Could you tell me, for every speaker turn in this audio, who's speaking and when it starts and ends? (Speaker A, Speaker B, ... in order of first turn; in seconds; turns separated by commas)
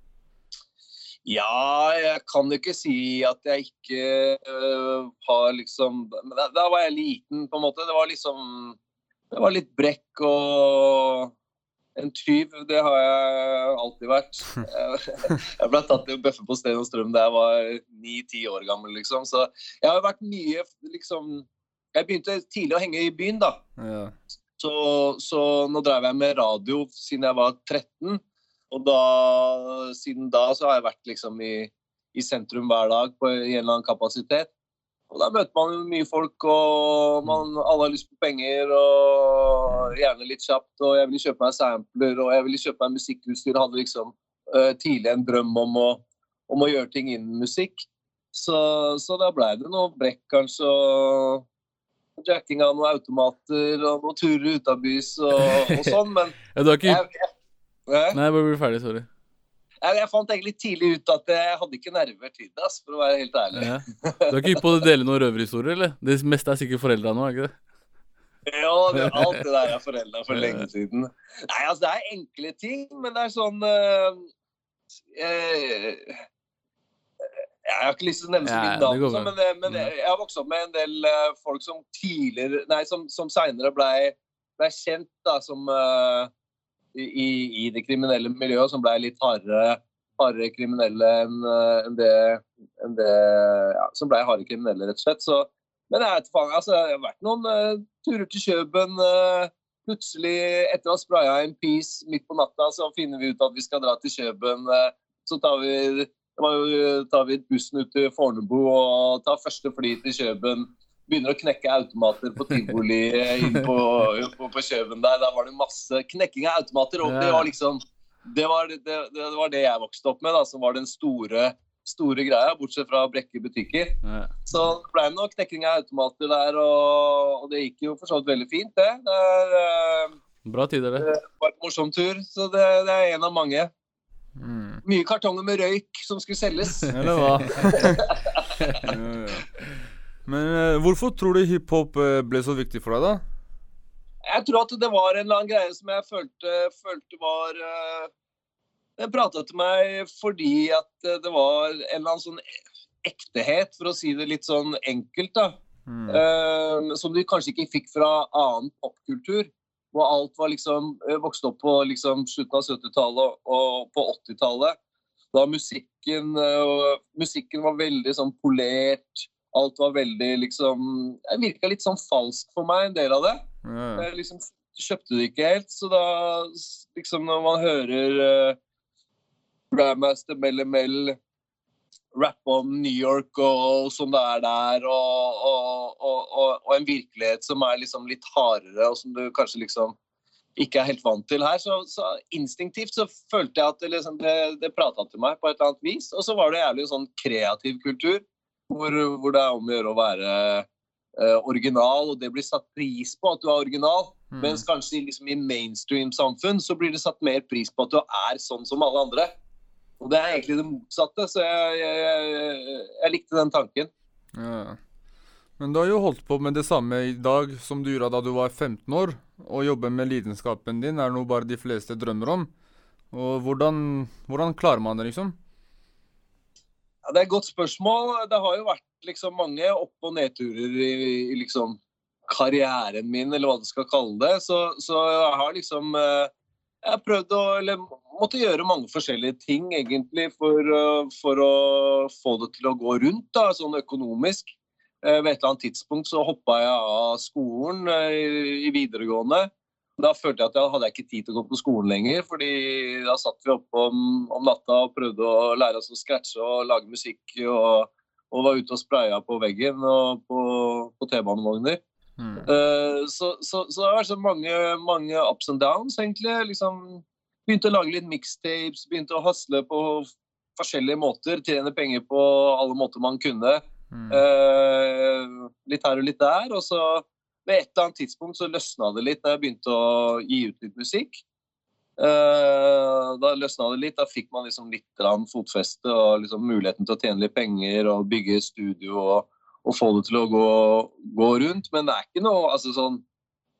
Speaker A: 1.2-8.8, Speaker A: 9.3-11.3, Speaker A: 11.9-23.6, Speaker B: 23.8-24.1, Speaker A: 24.6-34.5, Speaker A: 35.1-51.4, Speaker A: 52.2-57.2, Speaker C: 55.4-55.9, Speaker C: 56.5-57.0, Speaker A: 57.9-58.2, Speaker C: 58.1-59.1, Speaker A: 59.8-64.5, Speaker C: 63.5-67.5, Speaker A: 68.5-74.2, Speaker C: 69.0-69.2, Speaker C: 70.3-70.7, Speaker A: 75.1-76.1, Speaker A: 77.6-86.3, Speaker C: 78.4-79.9, Speaker A: 86.9-130.1, Speaker C: 117.0-117.5, Speaker C: 124.0-124.3, Speaker C: 130.4-131.1, Speaker A: 131.0-133.7, Speaker B: 134.3-134.8, Speaker A: 134.8-136.9, Speaker B: 136.9-138.0, Speaker C: 137.1-137.4, Speaker A: 137.7-138.5, Speaker B: 138.8-139.5, Speaker B: 140.2-143.2, Speaker A: 144.2-148.1, Speaker A: 149.0-152.4, Speaker A: 153.0-155.6, Speaker B: 155.8-156.2, Speaker A: 156.1-164.8, Speaker A: 165.3-173.4, Speaker B: 173.6-174.1, Speaker A: 173.9-178.6, Speaker A: 179.7-181.2, Speaker A: 182.1-189.9, Speaker A: 190.6-200.7, Speaker A: 201.2-209.3, Speaker B: 204.3-204.6, Speaker A: 210.0-213.9, Speaker B: 214.3-214.8, Speaker B: 215.6-222.5, Speaker B: 223.1-225.4, Speaker A: 227.1-236.3, Speaker A: 236.8-244.5, Speaker A: 245.0-261.8, Speaker B: 262.2-262.4, Speaker A: 262.4-281.2, Speaker B: 273.9-274.2, Speaker A: 282.0-293.0